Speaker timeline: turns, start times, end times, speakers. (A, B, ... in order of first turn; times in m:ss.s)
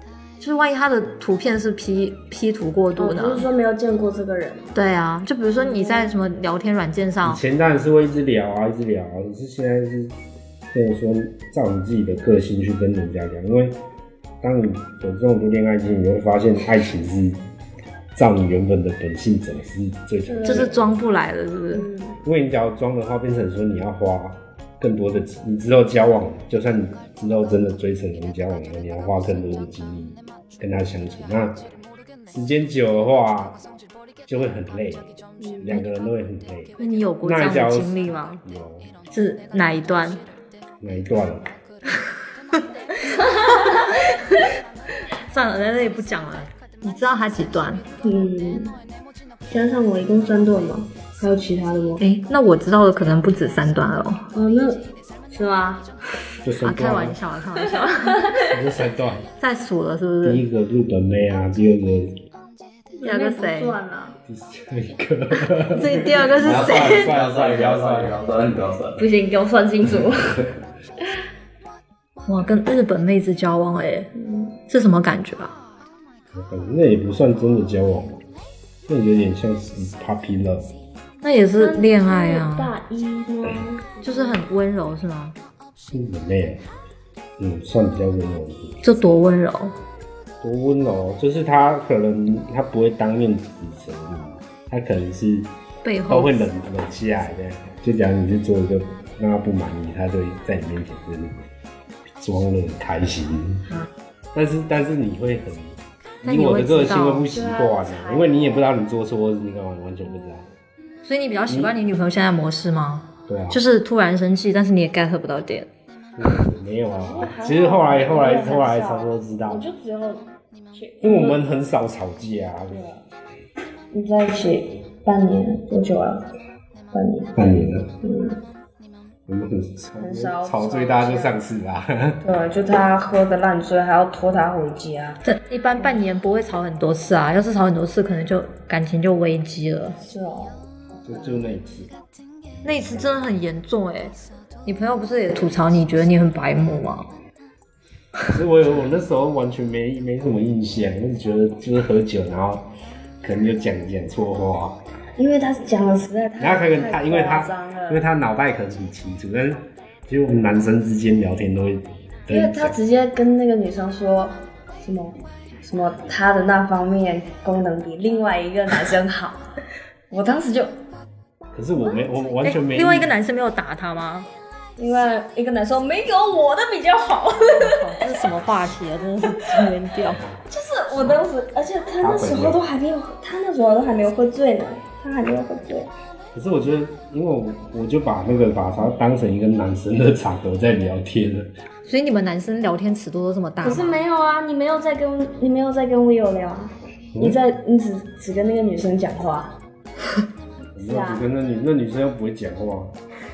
0:00.4-0:03.4 A
0:03.0-0:04.7 B
0:04.7-0:07.4 A
0:05.6-0:06.1 B
0:07.2-0:10.1 C
0:10.7-0:13.8 C
0:14.4-0:17.4 C
0:18.1-0:20.9 C
0:20.3-0:20.7 B
0:20.4-0:21.9 A
0:21.7-0:22.2 B
0:22.2-0:31.7 C
0:32.2-0:33.6 C
0:34.2-0:38.9 C
0:35.4-0:35.8 B
0:36.8-0:38.4 A
0:39.1-0:40.2 A
0:40.8-0:41.5 C
0:45.3-0:47.8 A
0:48.0-0:48.7 B
0:49.5-0:52.0 B
0:52.0-0:54.3 A
0:54.3-0:55.9 B
0:56.4-0:57.2 C
0:56.6-0:58.2 A
0:57.8-0:58.5 B
0:58.4-0:59.3 C
0:59.4-1:00.4 A
1:00.2-1:02.2 C
1:03.0-1:04.2 B
1:03.0-1:03.8 A
1:04.3-1:08.2 C
1:05.7-1:07.1 A
1:06.2-1:09.1 D
1:09.0-1:10.4 B
1:12.2-1:14.1 A
1:14.2-1:14.5 B
1:14.7-1:15.5 A
1:16.3-1:18.2 C
1:18.9-1:20.7 C
1:21.2-1:22.7 A
1:21.6-1:24.4 B
1:24.0-1:25.3 A
1:25.9-1:26.6 C
1:27.4-1:28.8 C
1:28.8-1:29.7 A
1:30.4-1:35.5 C
1:35.8-1:36.5 A
1:36.1-1:41.4 C
1:42.2-1:43.7 C
1:44.3-1:50.5 C
1:46.2-1:47.3 A
1:47.3-1:48.7 B
1:51.0-1:55.7 A
1:51.5-1:51.7 C
1:53.3-1:53.6 C
1:56.2-1:59.6 C
1:56.9-2:01.4 B
2:01.0-2:02.8 C
2:02.7-2:03.0 B
2:03.9-2:06.3 B
2:06.9-2:08.4 B
2:07.4-2:07.9 C
2:09.3-2:12.2 C
2:10.0-2:11.4 B
2:12.2-2:15.2 B
2:15.2-2:20.0 A
2:20.0-2:20.6 B
2:21.0-2:21.9 C
2:22.6-2:23.1 C
2:22.6-2:24.1 A
2:24.6-2:27.1 A
2:28.3-2:32.7 C
2:33.2-2:34.8 C
2:35.2-2:38.0 B
2:36.4-2:42.8 C
2:42.3-2:50.7 B
2:51.5-2:53.1 C
2:52.4-2:54.3 A
2:54.8-2:58.0 B
2:57.6-3:00.2 A
3:00.2-3:00.4 C
3:00.5-3:05.9 B
3:02.0-3:02.6 C
3:06.3-3:11.5 C
3:11.8-3:14.0 A
3:13.6-3:19.5 B
3:20.7-3:22.9 C
3:20.8-3:21.2 B